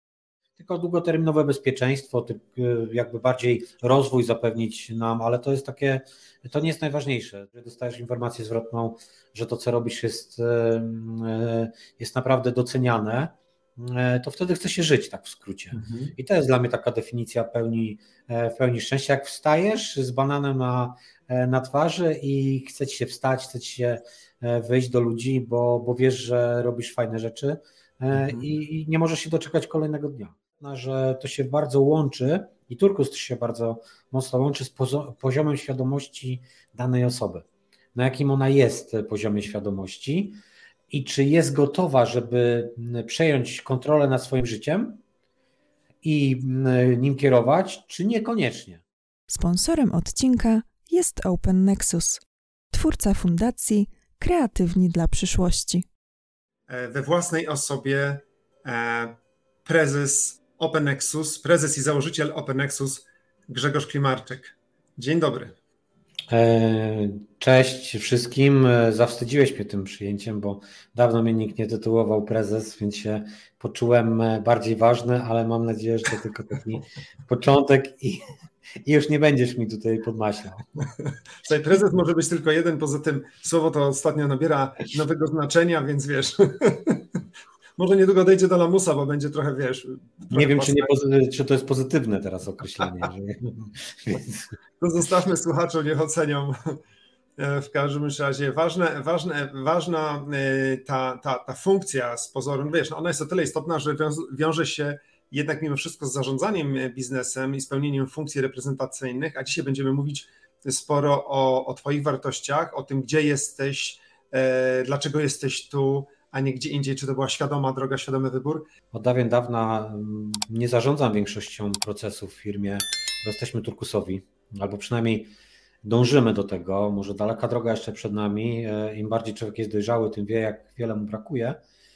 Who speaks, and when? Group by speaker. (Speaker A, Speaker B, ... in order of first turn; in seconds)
Speaker A: 0.6-45.0, 46.0-48.8, 66.3-78.2, 78.8-80.7, 90.3-94.5, 118.9-125.3, 125.8-131.6
Speaker B: 15.7-16.1, 28.1-28.5, 56.7-65.6, 81.4-87.2, 87.8-91.0, 94.8-96.8, 97.4-118.7
Speaker C: 49.3-55.9